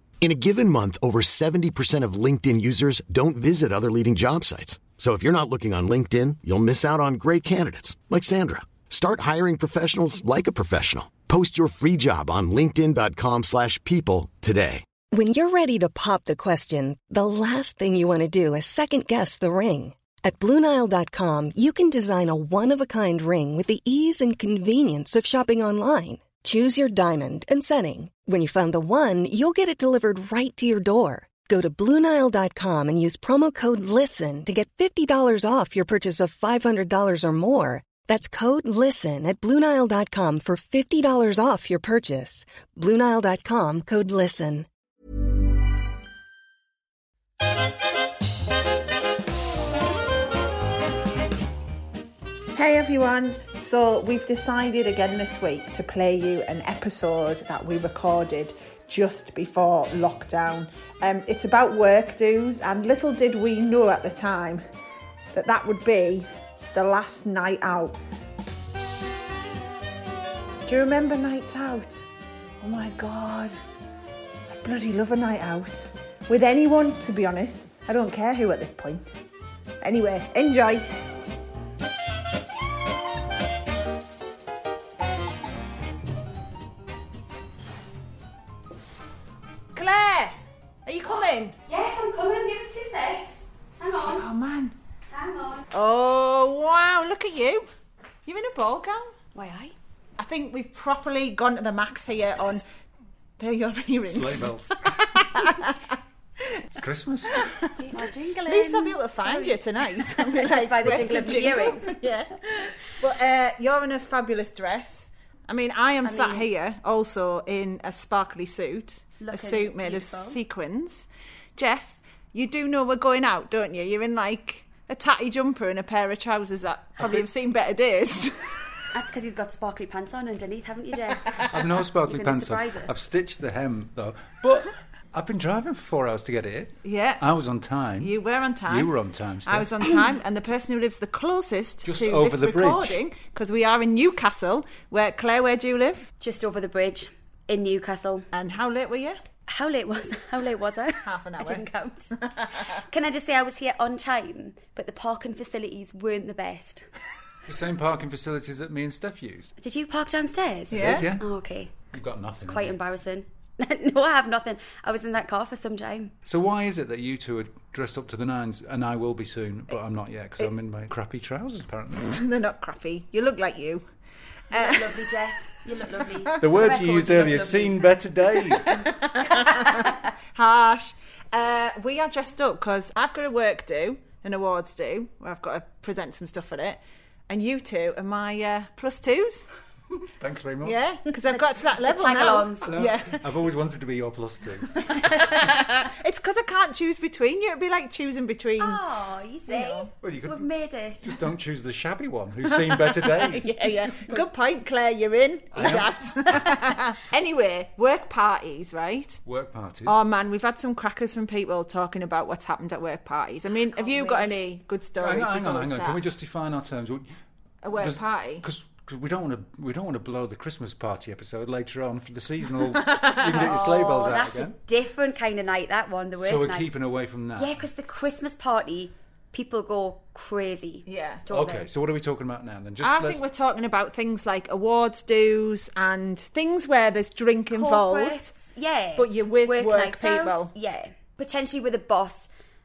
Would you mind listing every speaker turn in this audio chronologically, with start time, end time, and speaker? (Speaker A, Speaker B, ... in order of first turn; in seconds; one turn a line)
Speaker A: 0.2-14.9
Speaker B: 15.1-44.7
Speaker C: 52.5-64.6
Speaker C: 65.3-68.0
Speaker C: 70.7-72.0
Speaker C: 72.6-73.6
Speaker C: 74.5-79.1
Speaker C: 79.8-80.9
Speaker C: 89.7-90.3
Speaker C: 90.9-91.5
Speaker D: 91.7-94.2
Speaker C: 93.9-94.8
Speaker D: 95.1-95.7
Speaker C: 95.7-97.7
Speaker C: 98.3-99.1
Speaker D: 99.3-99.7
Speaker C: 100.2-102.6
Speaker C: 103.4-106.6
Speaker E: 104.1-105.0
Speaker E: 106.7-107.5
Speaker C: 107.3-128.6
Speaker D: 107.8-112.0
Speaker D: 116.0-116.5
Speaker D: 119.2-120.4
Speaker D: 128.9-131.4
Speaker E: 131.5-138.2
Speaker D: 132.0-132.9
Speaker C: 136.8-137.2
Speaker C: 138.0-138.9
Speaker E: 138.7-139.9
Speaker C: 139.5-146.1
Speaker E: 141.8-143.0
Speaker D: 146.2-148.3
Speaker C: 148.3-149.2
Speaker D: 149.5-156.8
Speaker C: 151.0-151.7
Speaker C: 152.2-152.7
Speaker E: 157.5-159.5
Speaker D: 159.6-161.7
Speaker C: 160.7-161.1
Speaker E: 160.7-161.3
Speaker E: 161.9-162.8
Speaker D: 162.4-166.1
Speaker E: 166.2-172.2
Speaker C: 172.1-173.8
Speaker C: 174.5-175.2
Speaker D: 174.5-177.8
Speaker E: 176.4-178.8
Speaker C: 178.7-189.4
Speaker D: 179.6-179.9
Speaker E: 190.1-190.8
Speaker C: 190.6-193.3
Speaker D: 191.3-192.7
Speaker E: 192.6-194.8
Speaker C: 194.8-198.8
Speaker D: 195.0-195.6
Speaker D: 198.6-201.2
Speaker C: 199.5-199.9
Speaker E: 200.0-200.5
Speaker E: 201.0-203.6
Speaker C: 202.6-209.2
Speaker E: 205.6-205.9
Speaker D: 206.3-206.7
Speaker E: 209.3-210.0
Speaker C: 209.9-216.0
Speaker D: 213.7-214.5
Speaker E: 215.0-217.1
Speaker C: 217.6-218.4
Speaker E: 217.7-224.6
Speaker C: 222.7-223.5
Speaker D: 223.3-226.8
Speaker E: 226.2-227.6
Speaker D: 227.4-231.7
Speaker C: 230.9-231.2
Speaker E: 231.3-233.2
Speaker C: 232.8-238.3
Speaker D: 237.5-242.3
Speaker C: 239.0-240.5